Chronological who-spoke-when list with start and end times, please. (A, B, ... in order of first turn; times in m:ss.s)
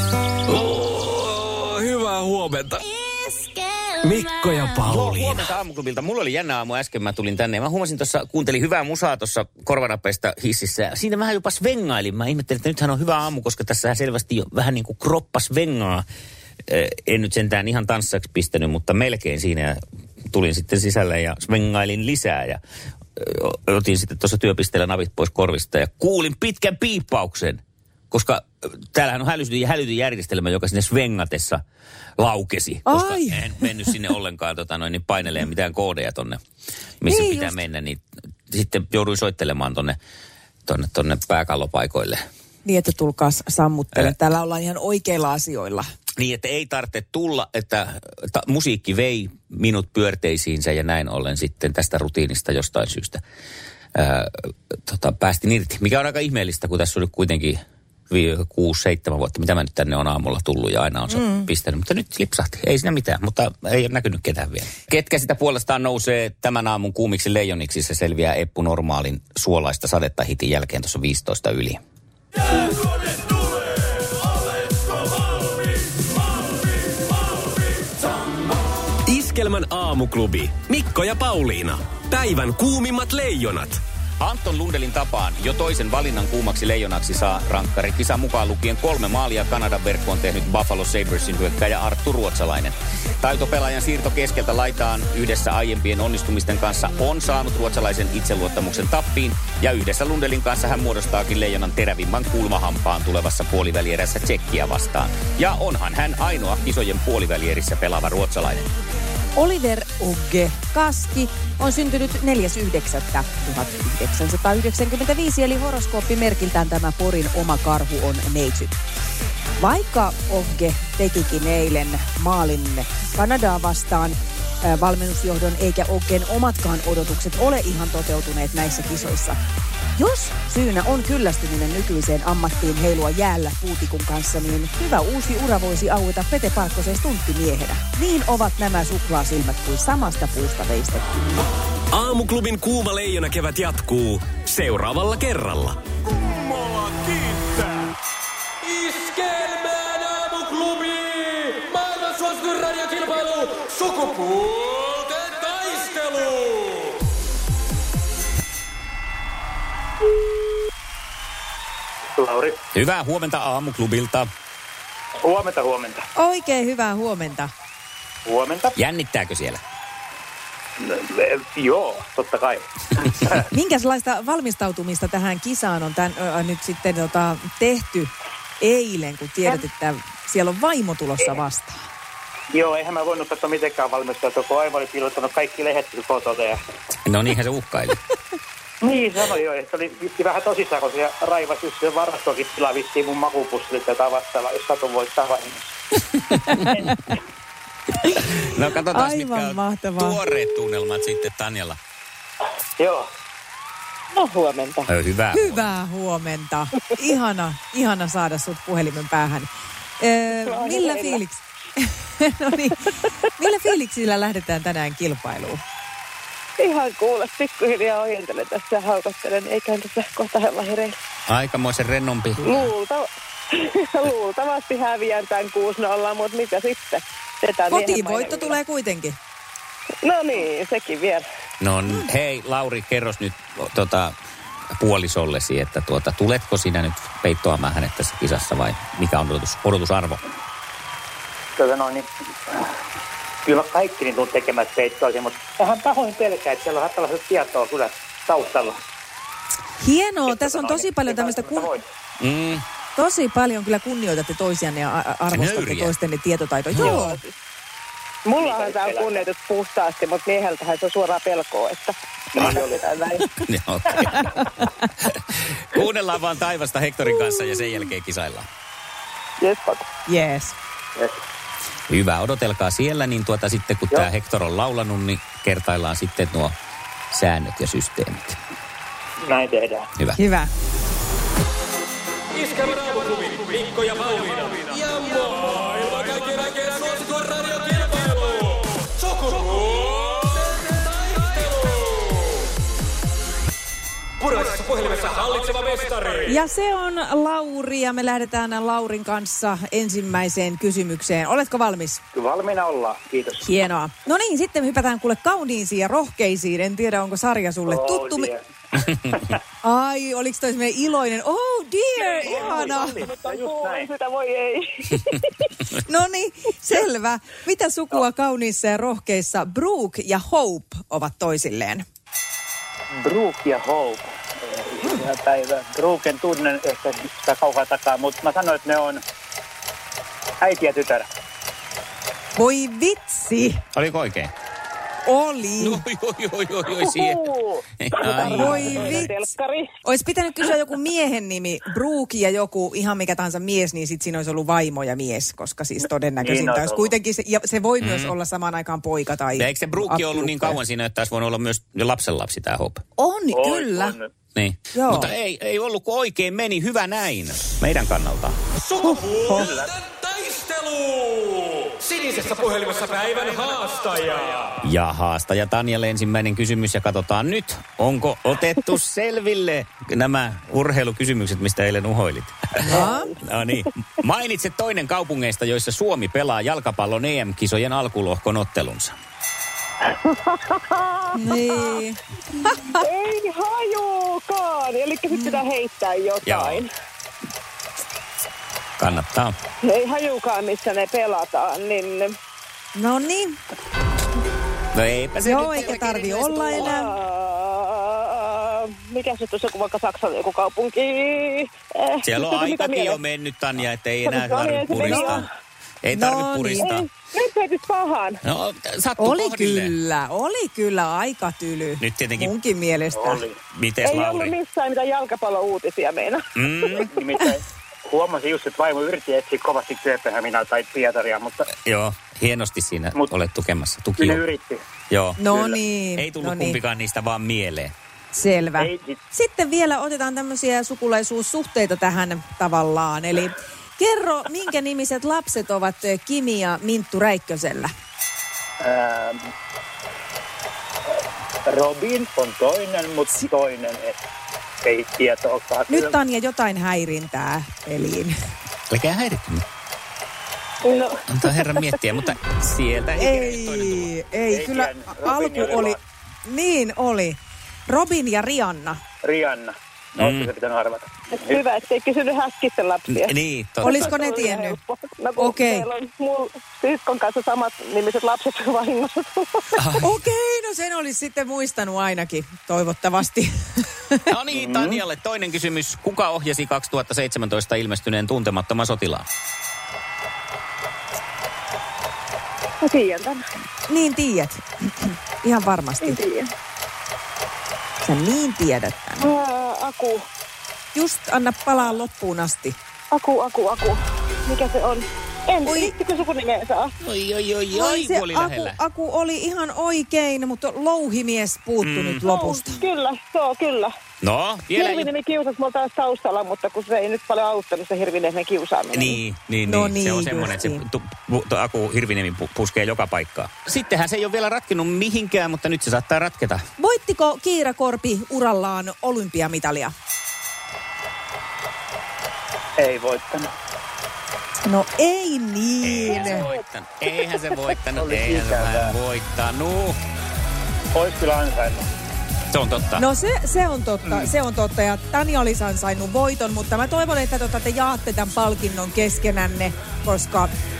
0:00.5-0:03.4 A
0:04.0-0:05.5 A
0:04.8-0:16.0 B
0:16.7-0:22.6 B
0:23.2-0:31.6 B
0:32.2-0:36.4 B
0:32.9-0:33.7 C
0:37.0-0:40.0 B
0:37.1-0:37.6 C
0:40.7-0:42.2 B
0:42.6-0:45.8 C
0:46.2-0:53.2 B
0:54.0-1:11.8 B
1:01.1-1:01.5 C
1:19.1-1:23.8 A
1:24.2-1:48.7 B
1:49.4-1:58.8 C
1:59.6-2:09.4 C
2:10.0-2:21.1 C
2:21.9-2:25.8 A
2:28.6-2:37.0 D
2:42.2-2:42.6 E
2:42.7-2:44.3 B
2:45.2-2:46.0 E
2:46.2-2:47.5 C
2:48.3-2:48.8 E
2:48.8-2:49.6 B
2:50.8-2:53.5 E
2:53.5-3:01.8 C
3:02.5-3:06.6 E
3:07.1-3:08.0 B
3:08.8-3:15.8 E
3:16.3-3:16.9 C
3:18.1-3:21.8 B
3:18.9-3:20.2 C
3:22.8-3:23.1 E
3:24.1-3:24.9 F
3:24.9-3:25.7 B
3:25.3-3:35.6 C
3:30.4-3:31.2 F
3:36.6-3:41.0 F
3:41.3-3:42.7 B
3:42.4-3:48.6 F
3:47.7-3:49.2 C
3:50.0-3:51.2 F
3:51.6-3:54.1 B
3:54.8-4:00.2 B
4:01.6-4:02.7 E
4:03.4-4:08.8 E
4:09.8-4:11.7 C
4:10.3-4:11.9 E
4:12.2-4:12.6 B
4:13.0-4:17.2 C
4:15.3-4:15.9 B
4:16.8-4:17.3 F
4:18.3-4:23.3 F
4:18.4-4:19.3 E
4:22.3-4:22.8 E
4:23.4-4:24.5 B
4:25.0-4:28.5 B
4:29.4-4:29.8 F
4:30.1-4:30.6 C
4:31.9-4:36.6 B
4:37.1-4:38.4 B
4:39.2-4:39.9 E
4:40.2-4:40.5 C
4:42.4-4:52.2 D
4:54.2-4:56.3 D
4:56.3-5:02.0 C
5:02.1-5:03.5 E
5:03.4-5:08.3 C
5:07.7-5:08.4 E
5:09.1-5:09.4 E
5:09.6-5:13.0 C
5:12.0-5:13.9 E
5:12.2-5:15.2 F
5:15.7-5:21.8 C
5:22.9-5:29.0 E
5:30.4-5:31.1 E
5:32.4-5:33.6 C
5:33.7-5:34.3 B
5:35.0-5:35.8 C
5:35.6-5:37.2 B
5:37.8-5:39.0 B
5:38.0-5:39.7 F
5:38.2-5:39.2 C
5:39.8-5:50.6 C
5:46.2-5:46.9 E
5:47.8-5:48.2 B
5:49.3-5:52.8 B
5:53.0-5:54.0 C
5:53.3-5:54.1 E
5:54.4-5:58.4 B
5:54.7-5:55.1 C
5:58.7-6:04.5 D
5:58.8-5:59.5 C
5:59.3-5:59.8 E
6:04.6-6:19.0 B
6:12.6-6:13.1 C
6:12.8-6:13.1 F
6:20.3-6:21.0 F
6:21.1-6:22.8 C
6:22.8-6:26.7 F
6:25.1-6:25.4 C
6:26.2-6:26.6 B
6:28.8-6:29.3 B
6:29.6-6:32.1 F
6:32.8-6:33.4 C
6:34.7-6:36.7 B
6:35.2-6:36.9 C
6:36.5-6:43.0 F
6:42.0-6:45.3 B
6:44.0-6:45.3 F
6:44.8-6:45.3 C
6:45.8-6:46.8 B
6:45.9-6:46.7 C
6:46.7-6:48.2 F
6:48.2-6:49.8 B
6:49.0-6:53.2 C
6:51.8-6:52.3 B
6:52.9-6:53.4 E
6:53.5-6:54.3 B
6:53.8-6:56.2 F
6:56.4-6:56.9 B
6:56.7-7:01.5 E
7:01.6-7:04.2 B
7:04.0-7:04.6 E
7:04.9-7:05.4 B
7:05.2-7:06.6 C
7:05.3-7:05.6 E
7:06.0-7:07.7 B
7:08.1-7:17.7 C
7:08.6-7:09.0 E
7:18.6-7:19.2 E
7:21.5-7:24.0 E
7:24.6-7:26.0 E
7:25.7-7:28.1 C
7:28.7-7:29.4 B
7:30.6-7:30.9 F
7:31.1-7:33.9 B
7:33.0-7:37.2 C
7:34.3-7:35.8 E
7:37.7-7:38.8 C
7:39.0-7:41.4 E
7:40.0-7:40.3 B
7:41.1-7:43.1 F
7:42.9-7:44.0 B
7:43.6-7:49.5 F
7:43.6-7:44.6 C
7:45.2-7:45.7 C
7:49.6-7:49.9 B
7:49.8-7:54.1 C
7:54.1-7:59.1 B
7:54.4-7:54.8 E
8:02.6-8:03.2 F
8:03.7-8:06.0 C
8:05.8-8:06.3 F
8:07.8-8:09.1 C
8:09.0-8:10.0 F
8:10.7-8:12.6 C
8:12.9-8:16.7 F
8:15.4-8:15.7 C
8:16.8-8:18.6 B
8:17.5-8:22.6 C
8:21.6-8:22.1 B
8:22.0-8:23.7 F
8:24.0-8:24.9 B
8:24.6-8:29.0 F
8:28.7-8:36.4 B
8:29.5-8:30.6 C
8:36.6-8:39.7 C
8:42.6-8:43.3 E
8:44.5-8:46.3 C
8:45.6-8:49.8 B
8:47.8-8:48.7 E
8:50.7-8:51.6 E
8:52.3-8:52.8 B
8:52.8-9:00.3 C